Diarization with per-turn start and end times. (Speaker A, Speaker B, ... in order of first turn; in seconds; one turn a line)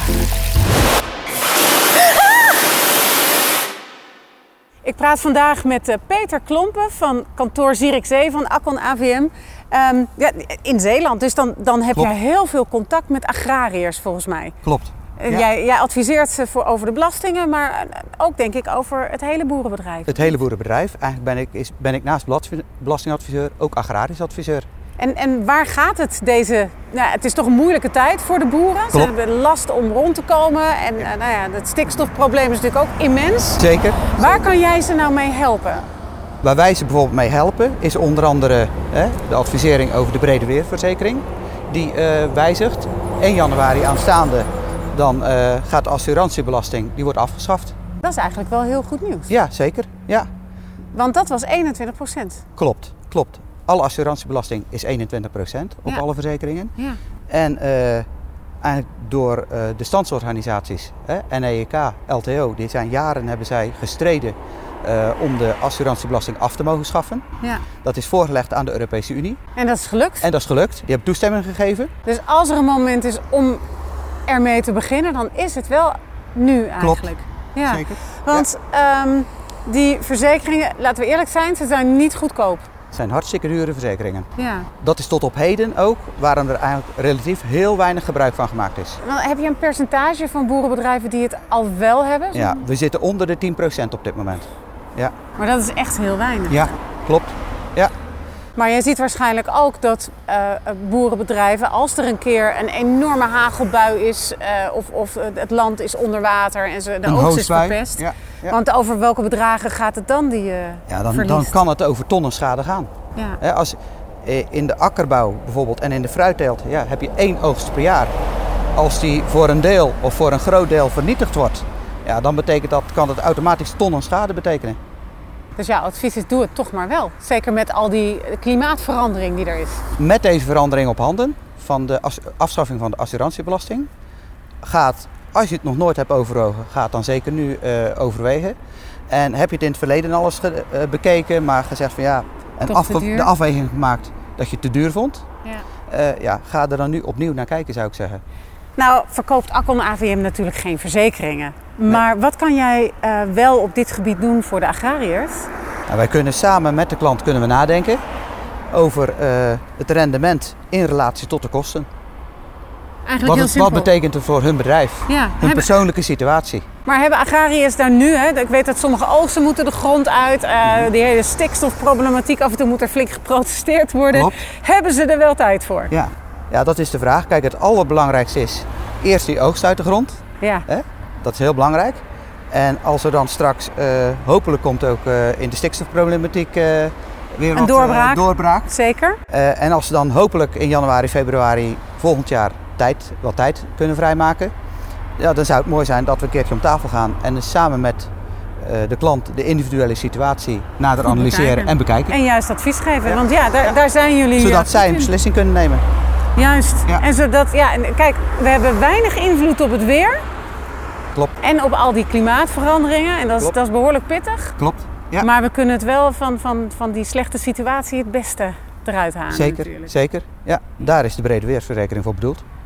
Speaker A: 4.8-14.6
Speaker B: 14.6-15.5
Speaker A: 15.2-20.4
Speaker B: 20.1-24.7
Speaker A: 25.0-35.9
Speaker B: 33.6-34.2
Speaker B: 36.4-47.8
Speaker A: 48.0-49.3
Speaker B: 49.3-50.3
Speaker A: 50.9-52.4
Speaker B: 52.6-56.7
Speaker B: 57.3-58.1
Speaker B: 58.6-67.2
Speaker A: 67.4-67.7
Speaker B: 67.8-69.4
Speaker A: 69.6-70.3
Speaker B: 70.2-71.9
Speaker A: 72.0-73.6
Speaker A: 74.3-82.7
Speaker B: 76.8-77.1
Speaker B: 77.6-78.5
Speaker B: 82.9-84.3
Speaker A: 84.4-84.7
Speaker B: 84.8-89.0
Speaker A: 89.0-92.6
Speaker B: 92.3-95.1
Speaker A: 95.4-96.6
Speaker B: 96.5-97.9
Speaker A: 98.6-111.5
Speaker B: 107.0-108.6
Speaker B: 110.9-118.1
Speaker B: 118.8-124.8
Speaker A: 125.6-129.8
Speaker B: 130.0-133.9
Speaker B: 134.6-138.6
Speaker B: 139.1-145.2
Speaker A: 142.7-143.3
Speaker B: 145.9-148.2
Speaker A: 148.8-155.5
Speaker B: 155.9-158.0
Speaker B: 158.7-161.9
Speaker A: 163.1-163.9
Speaker B: 163.2-166.7
Speaker A: 165.1-165.7
Speaker A: 166.8-175.9
Speaker B: 174.1-174.4
Speaker B: 175.9-188.7
Speaker A: 180.4-180.7
Speaker A: 187.5-189.2
Speaker B: 189.3-194.5
Speaker B: 195.2-202.2
Speaker A: 201.0-205.1
Speaker B: 203.1-203.8
Speaker B: 204.4-205.8
Speaker A: 206.4-210.2
Speaker A: 211.4-214.6
Speaker B: 214.6-215.3
Speaker A: 215.2-219.9
Speaker B: 219.3-222.4